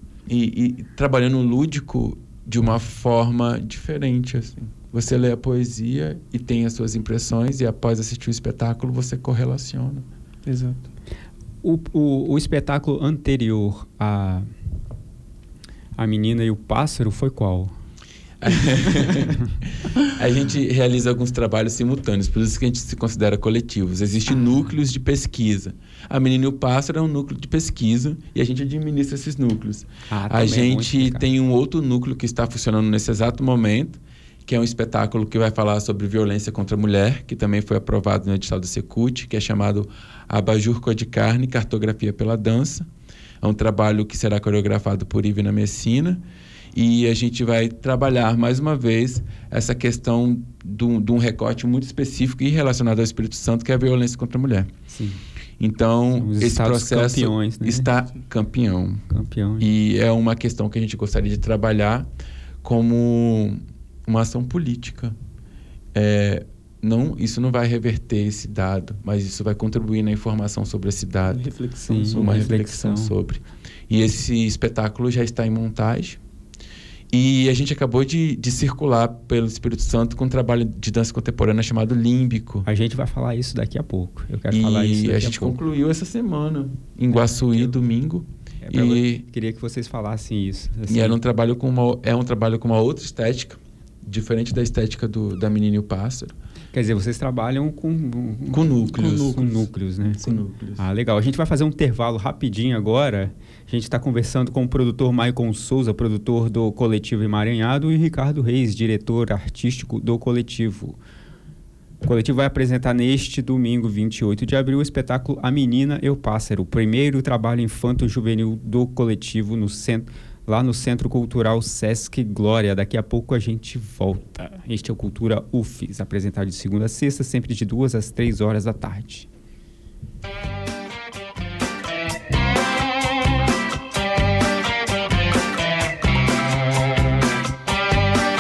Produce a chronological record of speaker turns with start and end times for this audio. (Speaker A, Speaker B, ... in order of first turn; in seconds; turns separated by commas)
Speaker A: 0.3-10.1, Speaker B: 10.5-10.9, Speaker C: 11.6-14.5, Speaker C: 16.0-17.8, Speaker A: 18.4-19.4, Speaker A: 20.0-42.9, Speaker C: 30.1-31.3, Speaker A: 43.4-46.2, Speaker A: 46.7-54.7, Speaker C: 54.9-55.2, Speaker A: 55.6-59.0, Speaker C: 56.2-57.9, Speaker C: 59.1-59.7, Speaker A: 59.6-62.1, Speaker A: 62.6-65.2, Speaker A: 65.9-71.4, Speaker B: 71.3-72.5, Speaker C: 71.9-73.2, Speaker A: 72.1-76.2, Speaker A: 77.1-82.7, Speaker C: 82.7-85.6, Speaker A: 84.5-89.2, Speaker C: 87.1-87.8, Speaker C: 88.6-91.2, Speaker A: 90.9-96.4, Speaker C: 96.7-100.3, Speaker A: 98.5-99.4, Speaker B: 99.0-99.6, Speaker A: 100.0-100.8, Speaker C: 100.8-111.0, Speaker C: 112.0-129.3